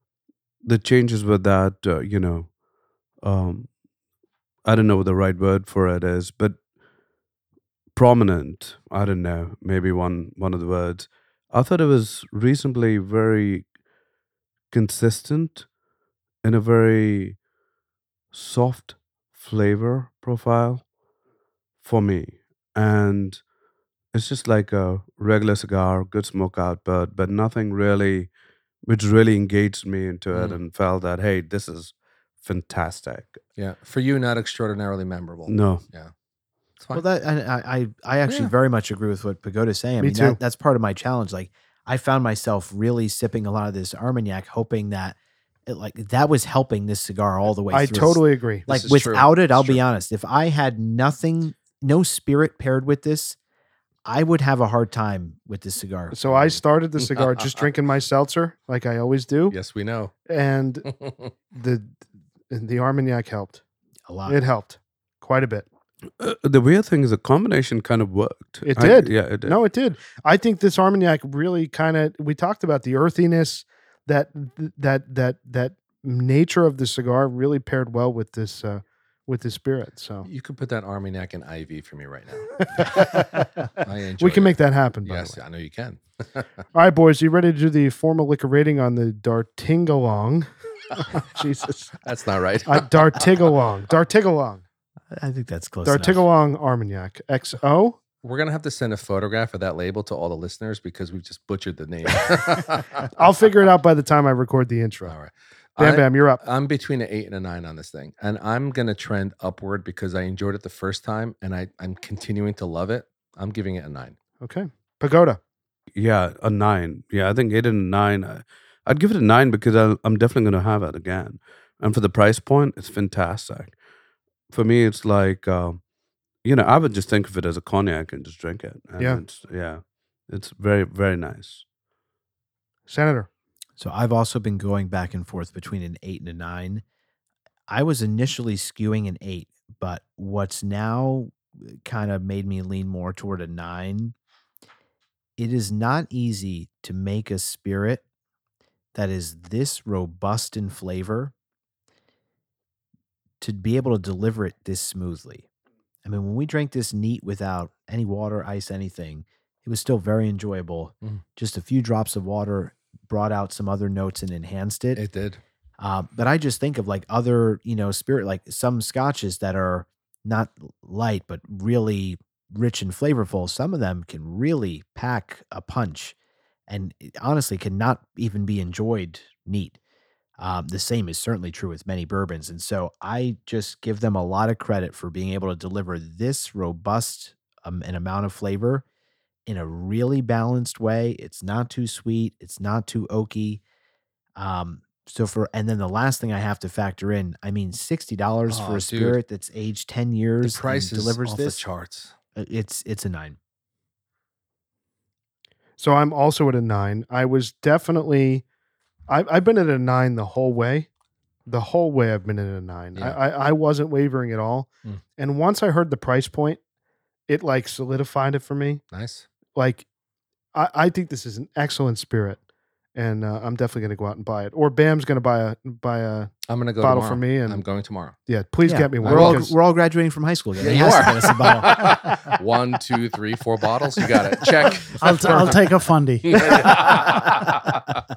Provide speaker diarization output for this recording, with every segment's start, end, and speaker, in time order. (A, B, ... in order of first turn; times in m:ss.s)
0:00.6-0:02.6 A
0:03.2-0:03.7 A
0:04.6-0:06.6 A
0:07.9-0:13.7 A
0:14.7-0:15.7 A
0:16.4-0:17.4 A
0:18.3-0:20.8 A
0:21.8-0:23.4 A
0:24.1-0:28.3 A
0:28.9-0:33.4 A
0:30.3-0:30.6 B
0:33.6-0:36.1 B
0:35.5-0:35.8 A
0:36.8-0:37.0 B
0:36.9-0:53.4 C
0:38.3-0:38.5 B
0:40.0-0:40.4 D
0:47.7-0:48.7 D
0:48.7-0:49.8 B
0:54.0-0:56.6 C
0:56.1-0:59.6 D
0:59.5-1:00.1 B
1:00.3-1:00.9 D
1:00.9-1:01.3 B
1:01.5-1:02.0 D
1:02.5-1:03.6 D
1:04.1-1:04.4 C
1:04.3-1:05.7 D
1:06.2-1:09.6 A
1:08.6-1:20.3 D
1:20.2-1:23.2 B
1:22.7-1:25.4 D
1:23.8-1:26.5 B
1:26.7-1:32.0 D
1:32.0-1:33.2 B
1:32.7-1:34.6 D
1:35.1-1:36.3 C
1:35.8-1:38.0 D
1:38.2-1:43.1 B
1:43.2-1:45.1 D
1:45.1-1:54.2 B
1:45.8-1:46.4 D
1:54.4-1:55.4 D
1:55.9-2:03.8 A
2:04.5-2:05.8 A
2:06.4-2:11.6 A
2:12.9-2:13.3 D
2:13.8-2:16.8 C
2:17.7-2:24.2 C
2:25.4-2:28.0 C
2:29.0-2:31.3 C
2:33.4-2:35.5 C
2:36.0-2:45.0 C
2:45.0-2:45.4 B
2:45.8-2:56.2 C
2:56.7-2:59.8 C
3:00.4-3:08.8 C
3:09.5-3:13.6 C
3:14.4-3:21.6 C
3:18.5-3:19.2 B
3:20.4-3:22.1 B
3:22.4-3:23.4 C
3:25.8-3:28.4 D
3:29.1-3:30.9 D
3:31.5-3:36.6 D
3:37.3-3:38.8 D
3:38.9-3:39.3 B
3:39.5-3:39.8 D
3:40.5-3:42.4 D
3:43.0-3:47.6 D
3:46.5-3:48.2 B
3:48.3-3:49.5 D
3:48.6-3:51.9 C
3:49.0-3:49.4 B
3:50.6-3:55.6 B
3:54.9-3:57.1 E
3:56.3-3:58.0 B
3:56.3-3:57.2 D